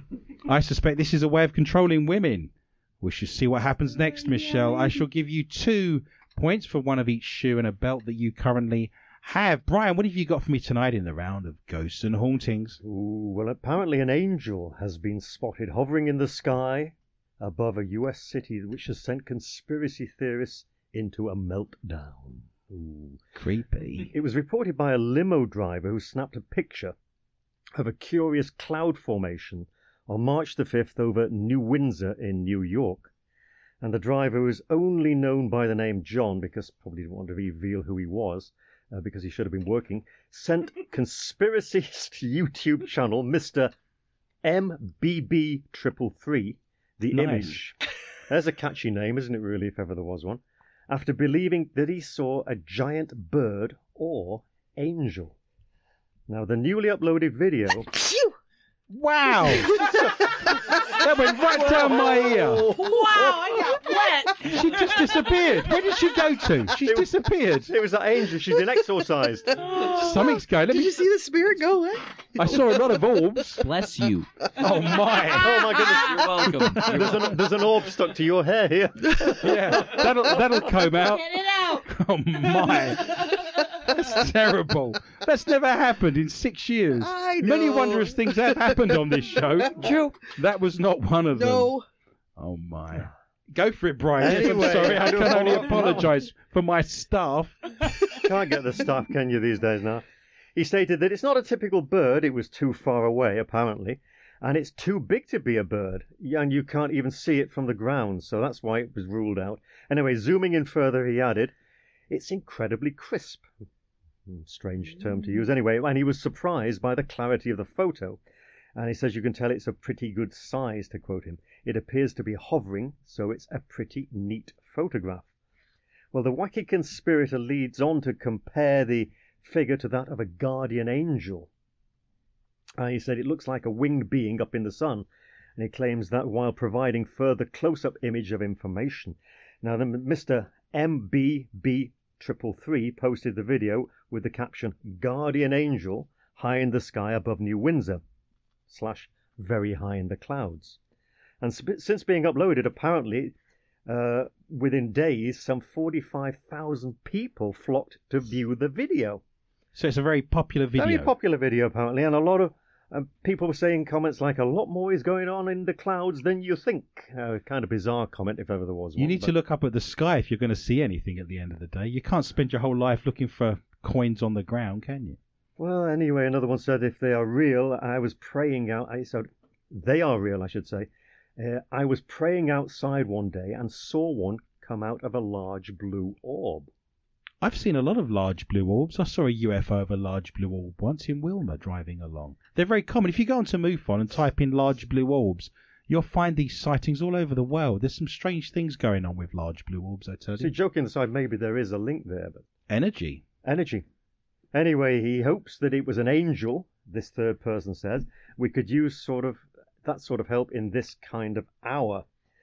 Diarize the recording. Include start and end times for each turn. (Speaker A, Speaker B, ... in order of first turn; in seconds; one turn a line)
Speaker A: 0.4-12.8
Speaker B: 12.8-23.2
Speaker A: 23.3-24.1
Speaker B: 24.1-26.9
Speaker B: 27.8-33.1
Speaker B: 33.8-43.7
Speaker B: 44.4-47.8
Speaker A: 47.1-47.6
Speaker B: 48.3-55.4
Speaker B: 56.3-57.9
Speaker C: 57.9-58.4
Speaker A: 58.9-59.7
Speaker B: 59.4-63.9
Speaker C: 59.5-60.4
Speaker A: 60.7-62.7
Speaker D: 62.7-65.2
Speaker A: 64.4-67.7
Speaker B: 66.7-69.7
Speaker C: 69.7-72.6
Speaker A: 69.8-71.0
Speaker A: 72.3-73.7
Speaker E: 73.6-74.3
Speaker A: 74.6-75.8
Speaker B: 75.2-80.7
Speaker E: 75.7-77.4
Speaker A: 76.5-77.3
Speaker A: 79.3-91.7
Speaker D: 81.4-81.8
Speaker C: 87.0-89.0
Speaker D: 89.8-90.2
Speaker C: 91.3-91.8
Speaker A: 92.4-97.9
Speaker B: 94.2-96.1
Speaker C: 94.3-95.0
Speaker B: 98.1-100.0
Speaker B: 100.5-111.5
Speaker B: 112.1-113.5
Speaker B: 114.3-118.2
Speaker B: 118.8-125.3
Speaker B: 126.1-131.5
Speaker B: 132.8-148.0
Speaker B: 148.7-150.8
Speaker B: 151.4-153.3
Speaker B: 153.9-159.2
Speaker A: 159.7-161.1
Speaker B: 160.8-169.3
Speaker A: 169.0-175.2
Speaker B: 175.6-186.7
Speaker A: 187.4-200.5
Speaker B: 200.4-202.4
Speaker A: 202.7-203.2
Speaker B: 203.4-203.8
Speaker B: 204.5-212.0